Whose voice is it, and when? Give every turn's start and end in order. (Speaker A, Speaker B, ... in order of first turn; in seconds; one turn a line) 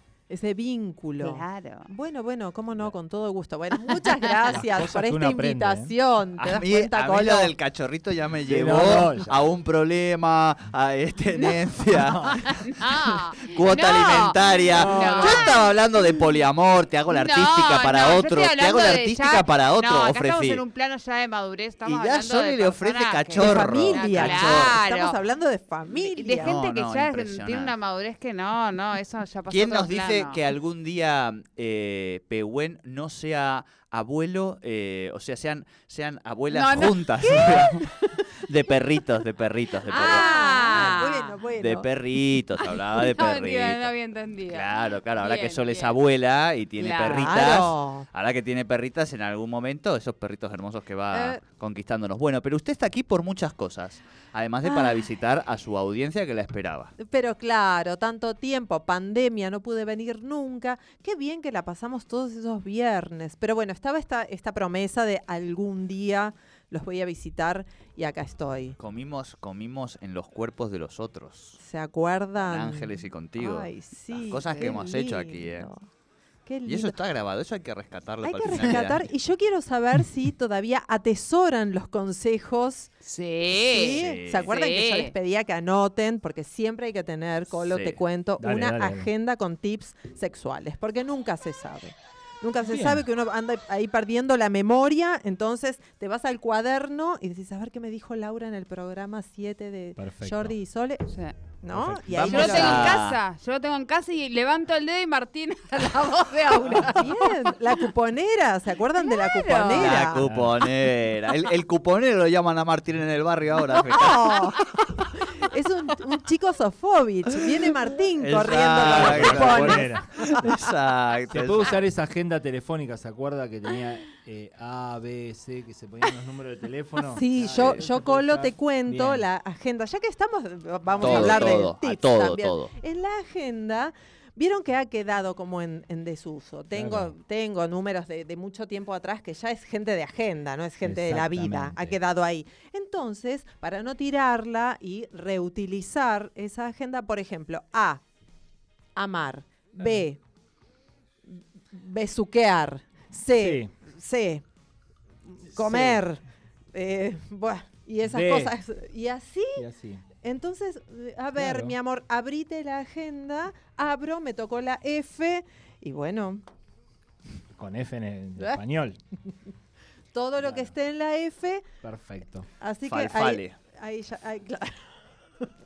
Speaker A: 0.3-7.5
Speaker B: 1.2-1.9
Speaker C: 4.5-6.0
Speaker D: 6.4-12.7
Speaker C: 8.5-9.3
Speaker B: 12.5-15.8
Speaker D: 13.4-20.6
Speaker C: 14.8-15.2
Speaker A: 14.8-15.4
Speaker B: 17.1-25.2
Speaker D: 21.9-24.8
Speaker A: 23.4-26.6
Speaker B: 26.0-30.4
Speaker D: 26.4-27.7
Speaker D: 29.5-41.0
Speaker B: 36.5-37.8
Speaker A: 37.2-38.3
Speaker B: 39.9-41.4
Speaker A: 39.9-41.9
Speaker D: 41.6-43.9
Speaker B: 42.6-46.0
Speaker D: 44.5-56.9
Speaker B: 46.8-47.4
Speaker A: 47.0-48.1
Speaker A: 51.1-51.4
Speaker A: 54.6-55.0
Speaker A: 57.0-68.8
Speaker D: 68.8-71.6
Speaker A: 71.6-75.9
Speaker D: 72.4-75.7
Speaker A: 76.5-77.0
Speaker D: 76.7-79.1
Speaker A: 78.2-82.9
Speaker B: 83.0-85.1
Speaker A: 83.5-101.1
Speaker D: 83.9-84.5
Speaker D: 87.5-88.0
Speaker C: 88.4-89.1
Speaker C: 92.7-93.0
Speaker C: 100.0-100.6
Speaker B: 101.1-101.3
Speaker A: 101.6-103.0
Speaker C: 101.7-102.2
Speaker D: 102.1-103.2
Speaker B: 102.2-107.5
Speaker A: 106.7-110.3
Speaker B: 109.0-109.9
Speaker D: 109.7-114.6
Speaker C: 110.0-110.6
Speaker A: 113.8-120.4
Speaker D: 118.2-121.8
Speaker C: 118.8-120.3
Speaker C: 121.3-129.2
Speaker A: 127.1-148.0
Speaker D: 127.4-127.8
Speaker C: 130.9-131.6
Speaker D: 131.0-132.7
Speaker C: 136.7-137.1
Speaker C: 140.8-142.0
Speaker A: 149.0-150.2
Speaker A: 151.3-154.4
Speaker C: 153.4-153.7
Speaker A: 155.3-159.7
Speaker C: 155.5-156.0
Speaker C: 158.0-158.6
Speaker C: 159.6-160.1
Speaker A: 160.2-166.4
Speaker C: 161.4-161.8
Speaker C: 167.5-169.0
Speaker A: 170.1-171.7
Speaker C: 170.4-170.7
Speaker C: 171.8-172.5
Speaker A: 172.6-174.9
Speaker D: 172.9-173.6